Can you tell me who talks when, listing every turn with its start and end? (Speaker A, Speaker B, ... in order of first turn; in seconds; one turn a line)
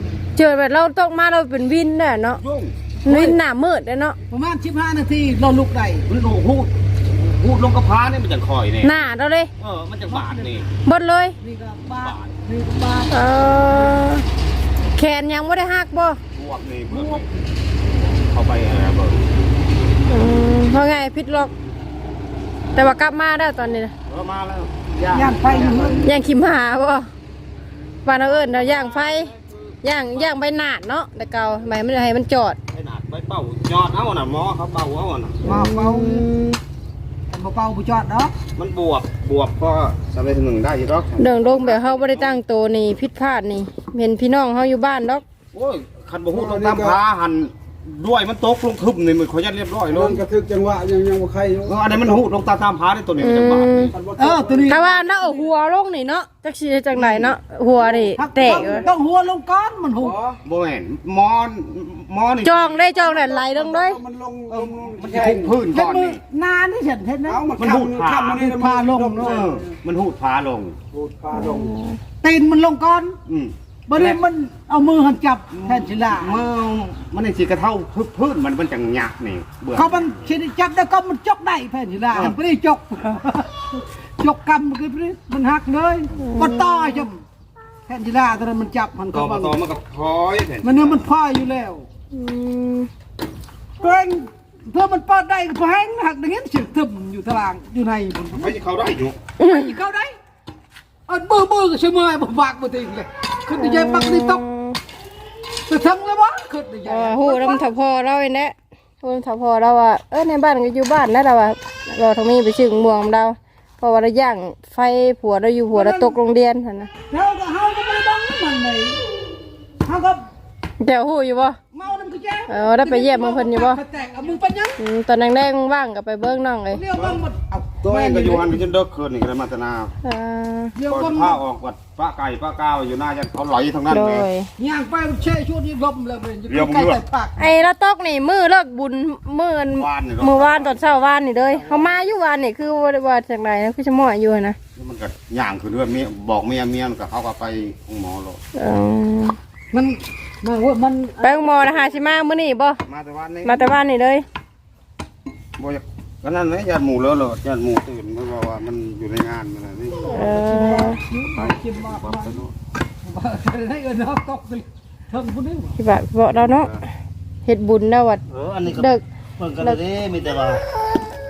Speaker A: 0.4-2.4
Speaker B: 2.3-2.8
Speaker C: 3.0-3.4
Speaker A: 3.1-4.2
Speaker C: 4.3-6.1
Speaker B: 6.1-8.9
Speaker A: 8.8-9.5
Speaker B: 9.6-10.7
Speaker C: 10.1-10.5
Speaker A: 10.8-11.3
Speaker C: 11.4-13.1
Speaker B: 12.0-12.4
Speaker A: 13.1-14.2
Speaker A: 15.0-16.2
Speaker B: 16.4-17.3
Speaker C: 16.9-17.3
Speaker B: 17.8-19.3
Speaker A: 20.1-21.5
Speaker A: 22.8-23.9
Speaker B: 24.1-26.2
Speaker C: 25.1-26.1
Speaker A: 26.0-27.1
Speaker A: 28.1-29.3
Speaker B: 28.2-29.7
Speaker A: 29.8-32.6
Speaker B: 32.7-35.4
Speaker C: 35.5-36.3
Speaker A: 35.5-36.6
Speaker C: 37.3-38.3
Speaker B: 38.6-42.4
Speaker A: 41.2-45.2
Speaker B: 45.5-50.2
Speaker D: 46.3-47.0
Speaker D: 49.9-51.8
Speaker B: 51.6-54.0
Speaker A: 53.2-53.9
Speaker D: 53.9-54.9
Speaker C: 54.2-55.3
Speaker A: 54.7-58.9
Speaker D: 58.1-58.8
Speaker C: 58.2-60.1
Speaker D: 60.0-60.4
Speaker B: 60.4-62.8
Speaker A: 62.4-64.0
Speaker D: 63.0-65.6
Speaker B: 64.5-66.2
Speaker C: 65.2-67.5
Speaker D: 67.3-69.8
Speaker B: 67.6-68.5
Speaker C: 68.1-69.4
Speaker B: 69.0-70.8
Speaker D: 70.9-71.8
Speaker A: 71.3-72.0
Speaker C: 72.2-73.2
Speaker B: 73.3-74.2
Speaker C: 73.9-76.4
Speaker B: 75.5-80.3
Speaker C: 79.8-87.2
Speaker A: 86.2-87.1
Speaker C: 87.9-89.6
Speaker B: 89.1-91.0
Speaker C: 90.6-91.9
Speaker A: 92.1-92.9
Speaker C: 93.8-98.6
Speaker B: 98.3-99.2
Speaker A: 99.4-99.7
Speaker C: 99.4-100.2
Speaker C: 101.1-104.4
Speaker A: 103.6-104.8
Speaker C: 105.7-107.7
Speaker A: 106.9-116.9
Speaker C: 115.7-116.2
Speaker C: 117.1-119.0
Speaker C: 119.8-120.3
Speaker A: 120.8-121.6
Speaker C: 121.7-124.8
Speaker A: 122.5-123.8
Speaker A: 124.8-126.8
Speaker C: 126.7-128.6
Speaker B: 126.9-130.0
Speaker A: 130.0-130.8
Speaker C: 130.8-131.4
Speaker B: 130.9-134.3
Speaker A: 133.9-134.5
Speaker C: 134.6-137.5
Speaker B: 136.5-137.0
Speaker A: 137.4-144.6
Speaker B: 139.7-140.8
Speaker B: 144.8-148.4
Speaker A: 148.6-149.4
Speaker C: 149.7-151.5
Speaker A: 151.2-152.8
Speaker B: 152.9-153.8
Speaker A: 153.4-154.2
Speaker B: 155.6-160.2
Speaker C: 160.1-162.4
Speaker A: 160.1-161.0
Speaker B: 161.3-162.5
Speaker C: 163.0-165.8
Speaker A: 165.8-166.7
Speaker B: 166.3-166.8
Speaker A: 167.5-169.0
Speaker B: 168.3-170.7